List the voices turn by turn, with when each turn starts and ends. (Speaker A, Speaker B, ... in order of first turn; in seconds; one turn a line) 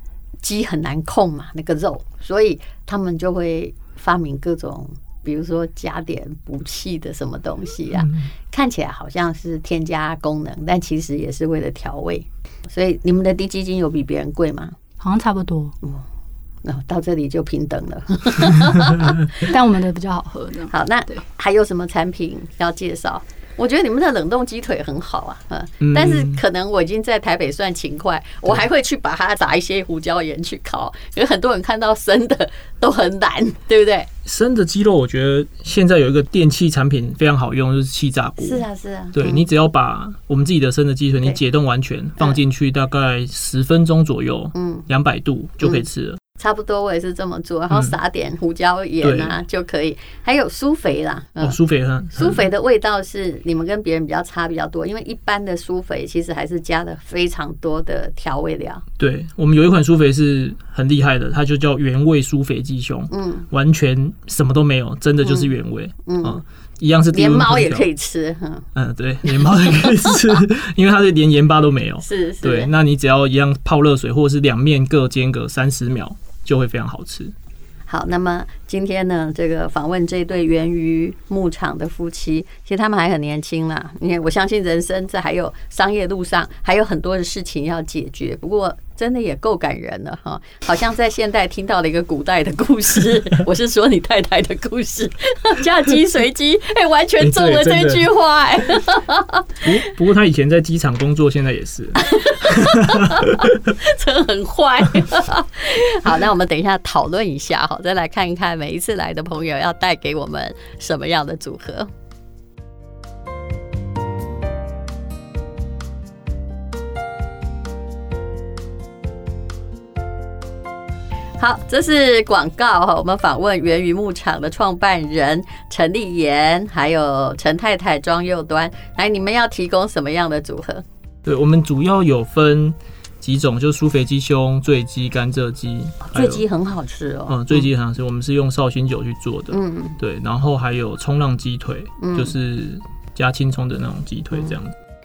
Speaker A: 0.4-14.7
Speaker B: 7.9-8.2
Speaker C: 15.0-15.7
Speaker A: 15.8-16.1
Speaker A: 16.6-19.2
Speaker C: 19.4-21.2
Speaker A: 20.7-34.1
Speaker B: 25.8-26.4
Speaker B: 34.2-46.2
Speaker A: 38.4-39.5
Speaker A: 44.5-44.9
Speaker A: 46.4-51.6
Speaker B: 49.0-49.4
Speaker B: 51.4-52.5
Speaker A: 52.1-58.8
Speaker B: 59.0-67.9
Speaker A: 63.1-63.5
Speaker A: 65.2-65.5
Speaker A: 66.0-66.4
Speaker A: 67.1-68.7
Speaker B: 68.7-77.3
Speaker A: 69.3-70.4
Speaker A: 72.0-72.7
Speaker A: 77.9-99.5
Speaker B: 97.2-98.1
Speaker B: 99.6-103.7
Speaker A: 102.0-111.9
Speaker A: 121.4-130.8
Speaker B: 131.2-136.4
Speaker A: 136.1-137.7
Speaker B: 137.3-144.7
Speaker A: 139.5-140.0
Speaker A: 142.0-142.3